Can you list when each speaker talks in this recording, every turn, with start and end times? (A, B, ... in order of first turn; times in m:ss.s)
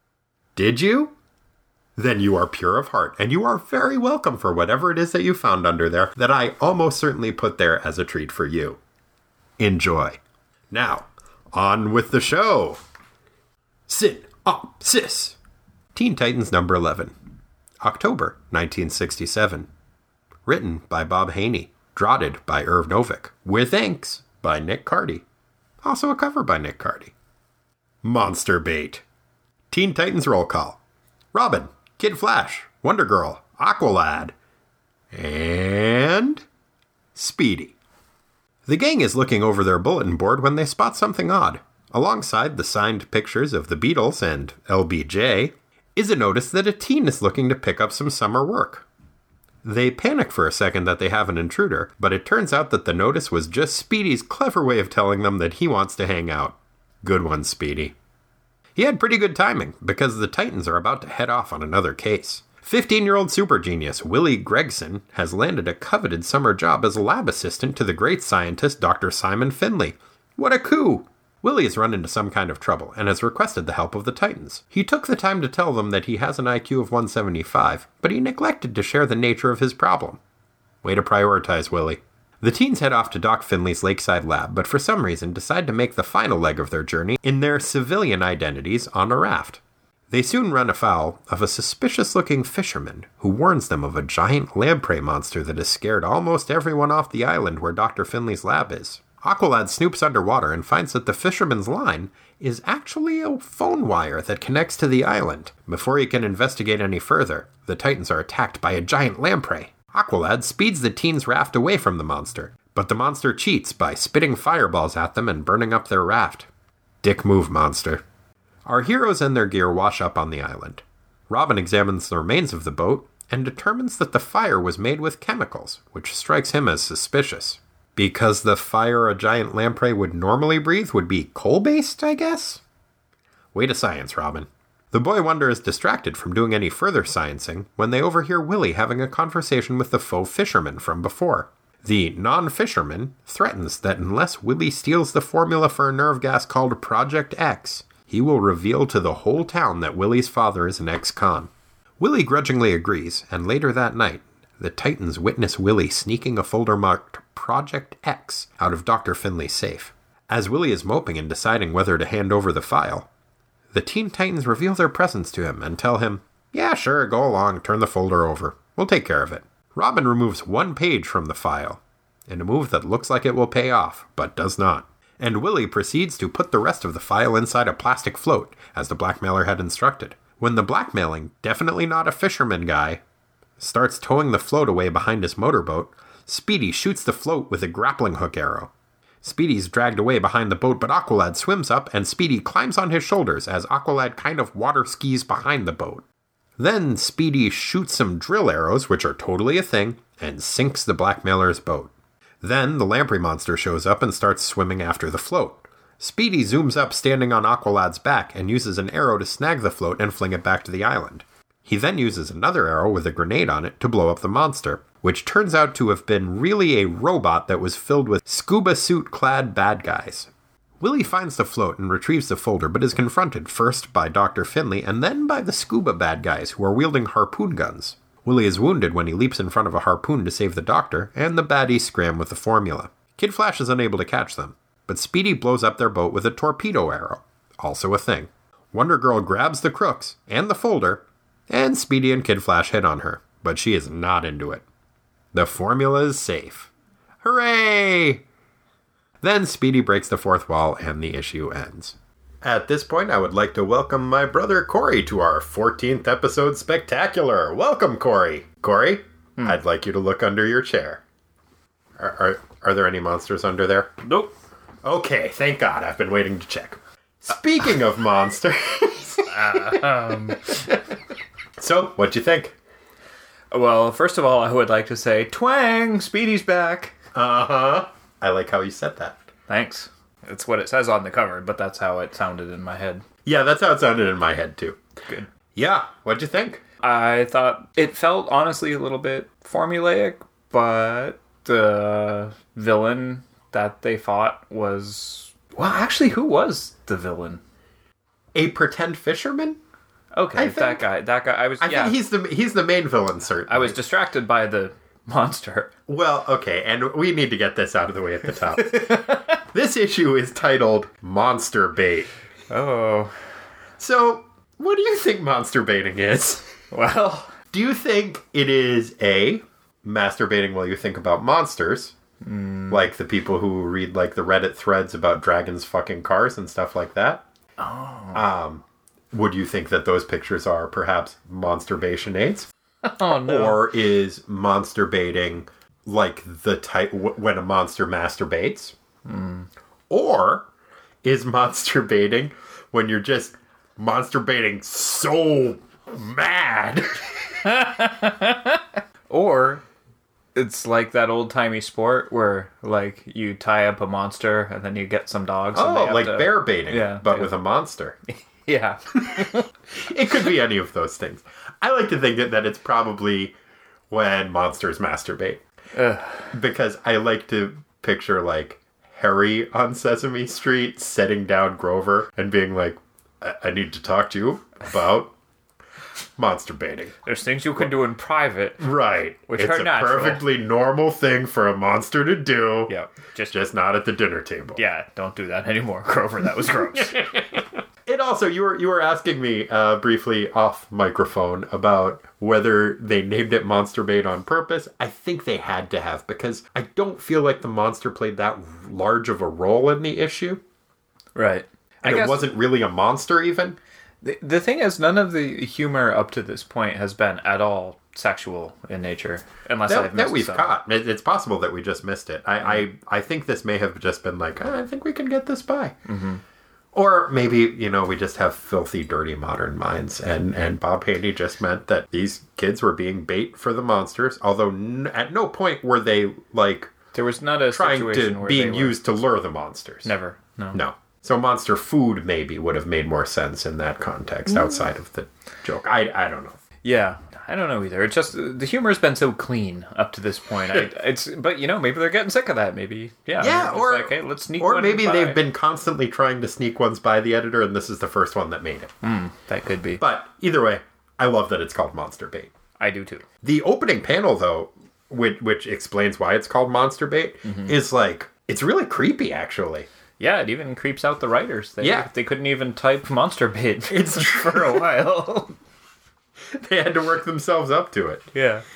0:00.5-0:01.1 A
0:02.0-0:08.8 A
0:09.6-0:10.2 A
0:10.7-0:12.8 A
0:13.9-0:15.4 A
0:15.9-0:17.1 A
0:17.8-0:19.7 A
0:20.4-0:25.2 A
0:25.8-0:27.1 A
0:28.0-0:29.0 A
0:29.7-0:30.8 A
0:31.3-0:34.3 A
0:35.1-0:36.4 A
0:37.1-0:37.7 A
0:38.6-0:48.8 A
0:49.6-0:57.9 A
0:58.8-1:20.2 A
1:20.8-1:56.5 A
1:57.0-1:58.0 A
1:58.6-2:12.6 A
2:13.5-2:43.1 A
2:43.7-3:03.0 A
3:03.6-3:08.7 A
3:09.2-3:16.0 A
3:16.6-4:04.6 A
4:05.3-4:06.7 A
4:07.2-4:08.2 A
4:09.2-4:21.0 A
4:22.0-4:23.9 A
4:24.0-4:24.3 B
4:24.8-4:30.8 A
4:29.3-4:30.6 B
4:31.6-4:32.5 A
4:33.5-4:36.9 B
4:37.1-4:39.2 A
4:39.5-4:43.0 B
4:43.2-4:44.8 A
4:45.5-4:46.6 A
4:46.8-4:57.4 B
4:58.3-4:59.6 A
5:00.1-5:02.0 B
5:00.3-5:00.8 A
5:01.6-5:03.8 A
5:03.5-5:05.7 B
5:05.9-5:12.1 A
5:08.5-5:09.4 B
5:12.5-5:13.1 B
5:13.8-5:16.5 A
5:16.7-5:17.3 B
5:17.5-5:21.9 A
5:22.2-5:22.9 B
5:22.7-5:27.2 A
5:27.6-5:28.2 B
5:28.1-5:32.5 A
5:32.8-5:33.6 B
5:33.2-5:38.7 A
5:39.0-5:39.5 B
5:39.9-5:40.5 A
5:41.0-5:47.4 A
5:47.4-5:49.6 B
5:50.3-5:57.3 B
5:55.5-5:58.0 A
5:58.3-5:59.5 B
5:59.2-6:03.4 A
6:03.9-6:05.4 A
6:05.7-6:06.3 B
6:06.3-6:15.1 A
6:16.2-6:17.0 A
6:17.0-6:18.7 B
6:18.6-6:22.7 A
6:19.3-6:20.2 B
6:22.7-6:23.3 B
6:23.3-6:24.6 A
6:24.6-6:27.1 B
6:26.8-6:40.4 A
6:41.2-6:42.2 B
6:41.8-6:43.6 A
6:44.0-6:50.6 B
6:49.7-6:55.8 A
6:55.9-6:56.2 B
6:56.7-7:06.7 A
7:06.9-7:08.8 B
7:07.5-7:09.9 A
7:09.8-7:10.6 B
7:10.5-7:16.4 A
7:16.6-7:25.2 B
7:23.2-7:28.7 A
7:28.8-7:29.8 B
7:29.8-7:32.3 A
7:32.6-7:33.0 B
7:33.2-7:39.7 A
7:37.2-7:37.5 B
7:40.0-7:45.3 B
7:41.6-7:41.9 A
7:43.7-7:44.7 A
7:46.3-7:48.1 A
7:48.1-7:48.4 B